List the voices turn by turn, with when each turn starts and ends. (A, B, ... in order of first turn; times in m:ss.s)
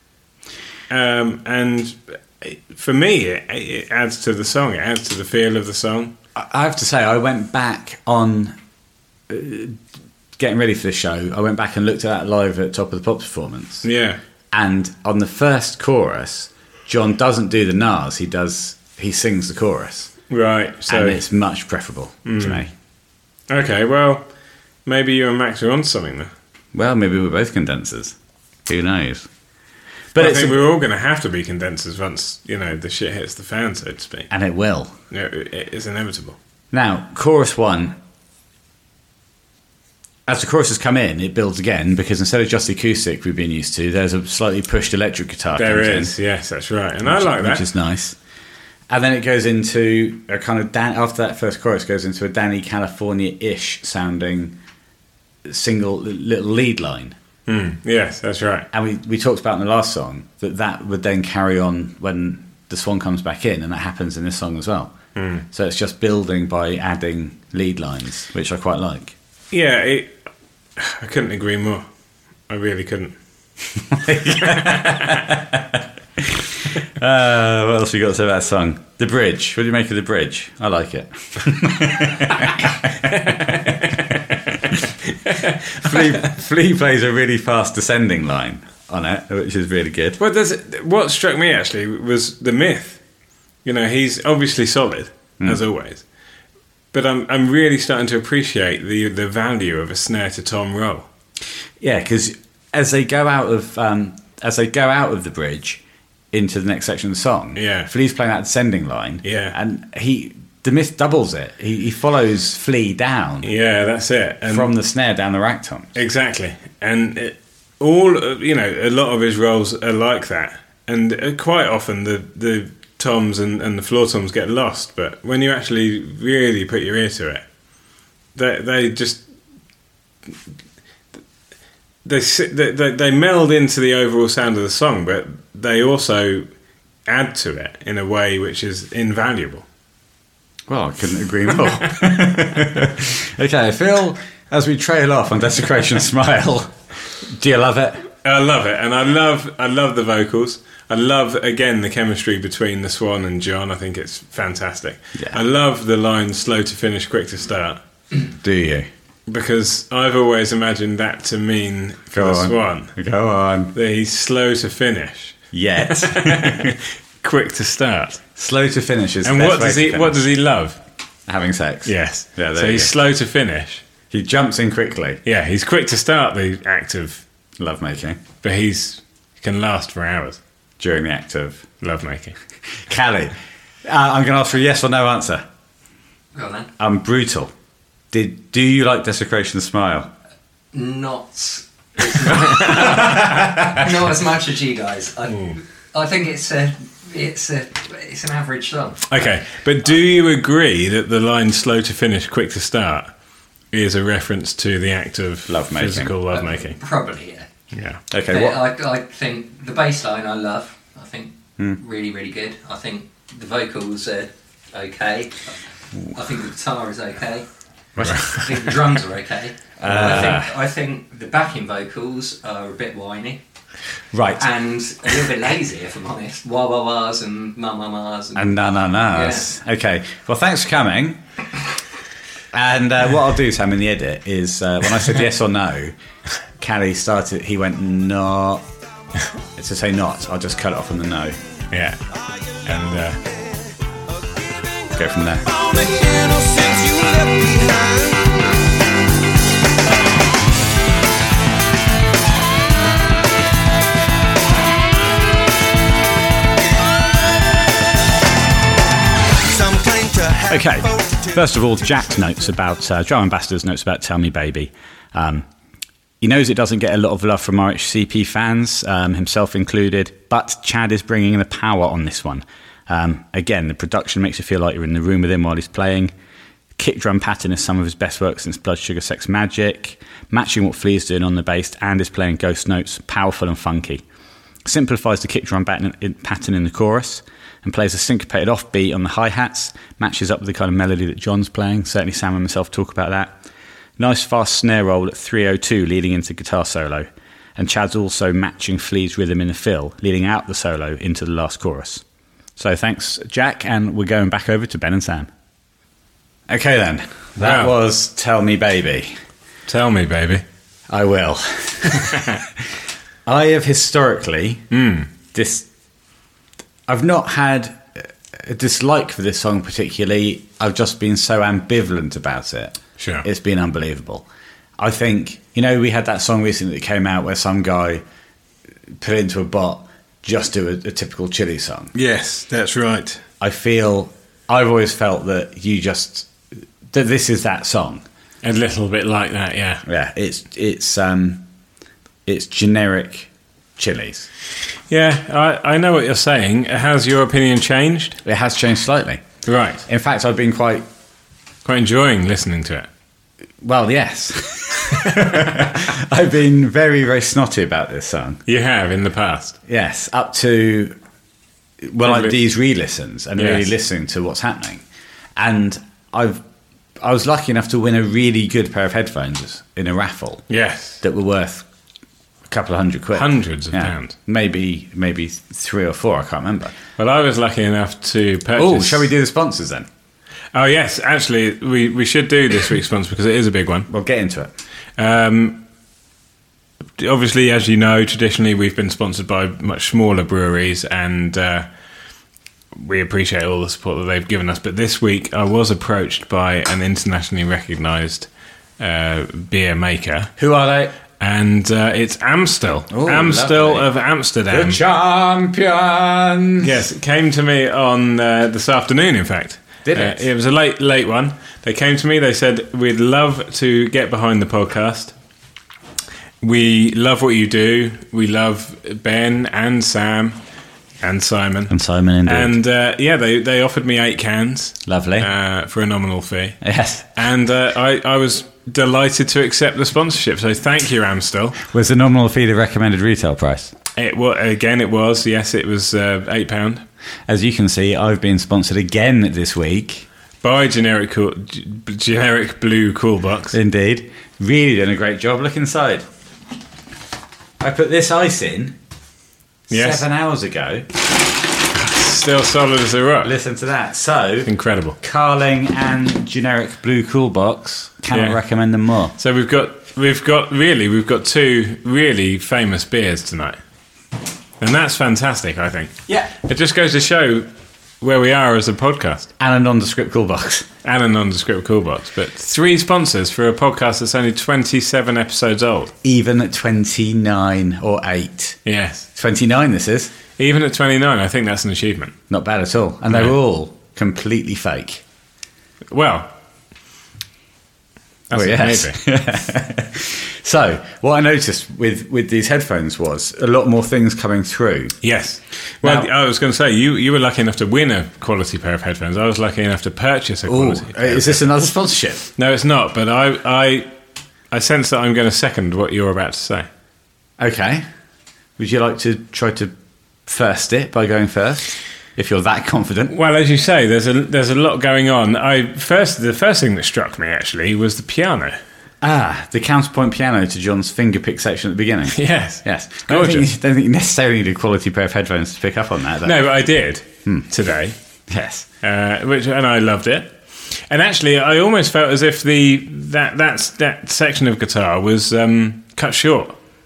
0:00.9-0:06.1 A
0:06.4-0:08.6 B
0:09.3-0:09.8 B
0:10.4-0:13.9 B
0:13.8-0:14.2 A
0:14.5-0:20.1 B
0:20.3-0:21.2 A
0:20.9-0:22.7 B
0:22.2-0:22.6 A
0:23.5-0:24.3 A
0:24.9-0:26.3 A
0:26.7-0:28.2 B
0:28.7-0:29.3 B
0:30.1-0:30.6 B
0:30.2-0:34.3 A
0:34.3-0:35.0 B
0:35.1-0:36.4 A
0:36.7-0:38.0 B
0:40.3-0:46.1 B
0:45.5-0:47.7 A
0:47.0-0:48.2 B
0:48.9-0:54.6 B
0:55.4-0:57.2 B
0:57.5-0:58.7 A
0:58.7-1:05.0 B
1:05.2-1:05.4 A
1:05.5-1:09.2 B
1:09.5-1:10.2 A
1:10.8-1:11.9 A
1:12.5-1:13.2 A
1:13.9-1:24.8 B
1:14.4-1:15.2 A
1:25.2-1:26.1 A
1:25.8-1:30.2 B
1:30.2-1:33.0 A
1:33.6-1:36.0 A
1:36.9-1:41.1 A
1:41.8-1:45.8 B
1:46.3-1:53.5 B
1:47.6-1:47.9 A
1:49.2-1:49.6 A
1:53.4-1:54.7 A
1:54.5-1:56.0 B
1:56.0-2:07.4 A
2:08.4-2:09.2 A
2:12.0-2:16.5 A
2:17.0-2:19.6 A
2:20.7-2:28.1 B
2:28.2-2:37.8 A
2:38.3-2:38.9 B
2:39.3-2:42.9 A
2:42.1-2:43.7 B
2:43.7-2:48.2 A
2:45.5-2:46.7 B
2:48.4-2:50.2 B
2:49.2-2:50.8 A
2:51.3-2:52.9 B
2:51.8-2:53.8 A
2:54.1-2:55.2 B
2:55.3-2:57.2 A
2:57.6-2:58.2 B
2:58.4-3:00.4 A
3:00.8-3:01.6 B
3:01.8-3:02.4 A
3:02.7-3:05.4 B
3:06.4-3:06.7 C
3:06.8-3:07.5 B
3:08.1-3:10.1 B
3:10.7-3:19.1 C
3:19.1-3:23.1 A
3:23.7-3:26.8 A
3:25.5-3:26.1 B
3:26.3-3:27.5 C
3:27.7-3:28.0 A
3:28.1-3:28.6 B
3:28.3-3:37.5 C
3:38.0-3:38.4 B
3:38.0-3:38.5 A
3:38.3-3:43.4 C
3:39.8-3:40.5 B
3:44.1-3:44.5 B
3:44.4-3:48.6 C
3:48.4-3:51.2 B
3:49.1-3:49.5 C
3:52.5-3:56.0 B
3:56.6-3:58.6 B
3:59.6-4:01.4 B
4:01.7-4:02.0 A
4:02.6-4:03.2 A
4:04.9-4:05.5 B
4:05.5-4:08.4 D
4:19.5-4:21.3 D
4:20.5-4:25.5 B
4:26.2-4:36.1 B
4:36.8-4:44.0 B
4:44.6-4:53.4 B
4:54.0-5:02.0 B
5:02.6-5:05.3 B
5:06.5-5:09.1 B
5:07.4-5:07.8 A
5:09.7-5:10.4 A
5:10.9-5:12.3 B
5:13.3-5:14.6 B
5:14.7-5:15.1 A
5:15.3-5:15.7 B
5:16.9-5:24.2 B
5:23.0-5:23.3 A
5:24.8-5:28.0 B
5:29.0-5:31.9 B
5:32.0-5:33.2 A
5:33.4-5:36.3 B
5:36.9-5:38.0 B
5:38.4-5:39.8 A
5:39.8-5:41.4 B
5:42.3-5:44.3 B
5:44.9-5:48.2 A
5:48.2-5:49.2 B
5:49.4-5:49.8 A
5:49.8-5:50.9 B
5:51.6-5:52.9 A
5:53.6-5:58.4 B
5:58.5-5:59.6 A
5:59.7-6:01.0 B
6:01.8-6:04.8 B
6:02.0-6:02.4 A
6:03.4-6:03.7 A
6:05.4-6:06.4 B
6:07.0-6:10.5 B
6:10.5-6:11.0 A
6:11.0-6:11.7 B
6:12.5-6:16.8 B
6:13.2-6:14.1 A
6:17.0-6:19.1 A
6:18.6-6:19.9 B
6:20.5-6:23.9 A
6:23.9-6:24.5 B
6:25.0-6:25.6 A
6:27.0-6:31.7 A
6:32.8-6:40.3 A
6:40.4-6:41.0 B
6:41.2-6:44.8 A
6:42.9-6:43.9 B
6:44.5-6:46.8 B
6:46.6-6:55.1 A
6:49.8-6:50.3 B
6:56.4-7:00.4 A
7:01.0-7:01.7 A
7:01.7-7:02.5 B
7:02.3-7:06.6 A
7:04.8-7:05.3 B
7:06.6-7:07.1 B
7:07.2-7:11.6 A
7:11.6-7:13.8 B
7:14.0-7:16.8 A
7:17.3-7:20.0 B
7:20.4-7:23.6 A
7:23.5-7:26.0 B
7:27.6-7:28.8 B
7:29.7-7:30.0 A
7:29.7-7:30.9 B
7:31.7-7:33.3 A
7:33.2-7:34.5 B
7:34.5-7:35.0 A
7:35.0-7:39.1 B
7:38.1-7:38.4 A
7:39.2-7:43.6 A
7:44.6-7:47.5 A
7:48.0-7:49.3 A
7:49.4-7:50.7 B
7:50.8-7:55.9 A
7:56.0-7:58.6 B
7:58.7-7:59.1 A
7:59.2-8:00.1 B
8:00.4-8:02.2 A
8:02.3-8:05.0 B
8:05.9-8:06.3 A
8:08.3-8:09.0 A
8:08.3-8:15.0 B
8:15.0-8:21.4 A
8:15.8-8:16.1 B
8:20.5-8:22.3 B
8:22.4-8:23.9 A
8:24.5-8:26.7 A
8:27.4-8:27.8 B
8:28.6-8:29.7 B
8:30.3-8:33.1 B
8:33.1-8:38.6 A
8:39.0-8:46.4 B
8:42.1-8:43.5 A
8:46.2-8:48.0 A
8:48.3-8:48.7 B
8:48.8-8:56.6 A